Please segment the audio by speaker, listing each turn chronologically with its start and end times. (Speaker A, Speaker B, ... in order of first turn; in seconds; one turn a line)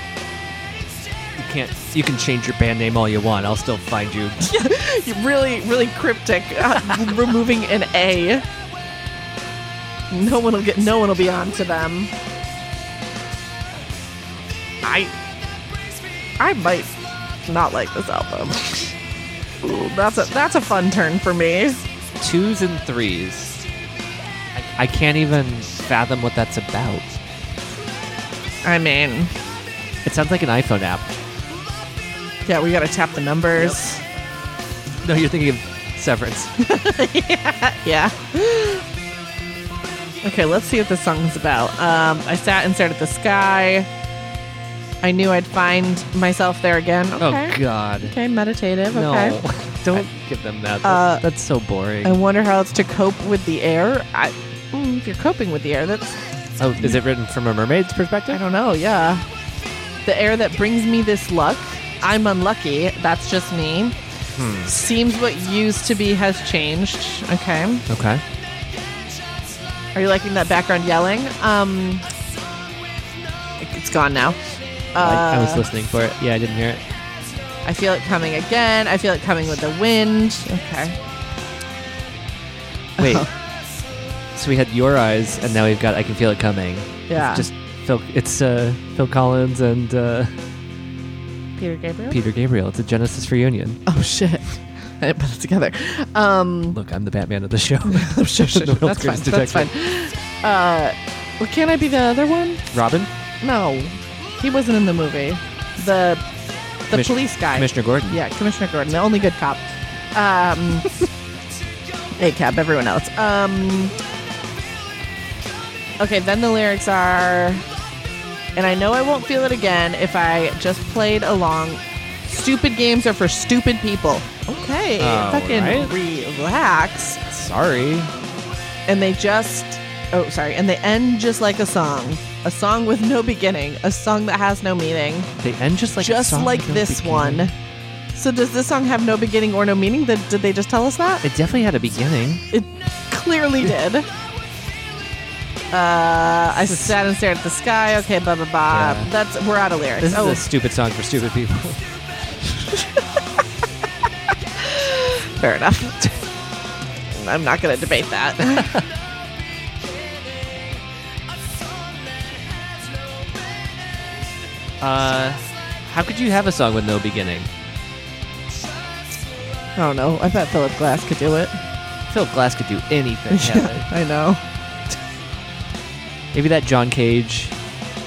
Speaker A: 1.4-4.4
Speaker B: 4.4-8.4
Speaker B: 10.1-12.1
Speaker B: 14.8-15.1
Speaker B: 16.4-16.9
Speaker B: 17.5-18.9
Speaker B: 19.6-21.8
Speaker A: 22.2-23.6
Speaker A: 24.6-27.1
Speaker B: 28.6-29.3
Speaker A: 30.0-31.2
Speaker B: 32.5-34.0
Speaker A: 35.0-36.5
Speaker B: 36.6-38.9
Speaker B: 40.2-43.9
Speaker B: 45.0-49.4
Speaker A: 47.2-48.1
Speaker A: 48.9-52.2
Speaker B: 50.8-51.2
Speaker B: 52.0-56.2
Speaker A: 56.6-58.4
Speaker B: 58.3-59.2
Speaker B: 60.0-64.0
Speaker A: 64.4-64.7
Speaker B: 64.7-67.8
Speaker A: 67.9-68.2
Speaker B: 70.0-72.1
Speaker B: 73.6-74.4
Speaker B: 75.0-75.6
Speaker A: 75.0-76.8
Speaker B: 77.7-81.0
Speaker B: 83.0-83.3
Speaker A: 83.0-83.3
Speaker A: 84.3-90.3
Speaker B: 87.1-87.5
Speaker B: 91.6-92.2
Speaker A: 92.1-93.8
Speaker B: 93.9-96.8
Speaker A: 96.7-99.7
Speaker B: 97.9-102.7
Speaker A: 102.7-103.1
Speaker B: 103.4-106.2
Speaker B: 106.9-111.1
Speaker A: 106.9-108.2
Speaker B: 112.2-113.9
Speaker B: 116.0-117.7
Speaker B: 118.6-127.2
Speaker A: 125.0-125.9
Speaker A: 127.3-128.1
Speaker B: 128.9-135.3
Speaker A: 135.4-137.5
Speaker B: 136.0-137.5
Speaker B: 138.2-141.2
Speaker A: 141.2-142.4
Speaker B: 142.5-144.1
Speaker B: 145.7-150.4
Speaker A: 148.7-149.1
Speaker A: 150.0-151.8
Speaker B: 152.7-153.0
Speaker B: 154.6-156.2
Speaker B: 157.1-158.8
Speaker A: 164.8-167.5
Speaker B: 169.8-171.6
Speaker A: 172.1-173.9
Speaker B: 173.3-174.4
Speaker A: 176.3-177.6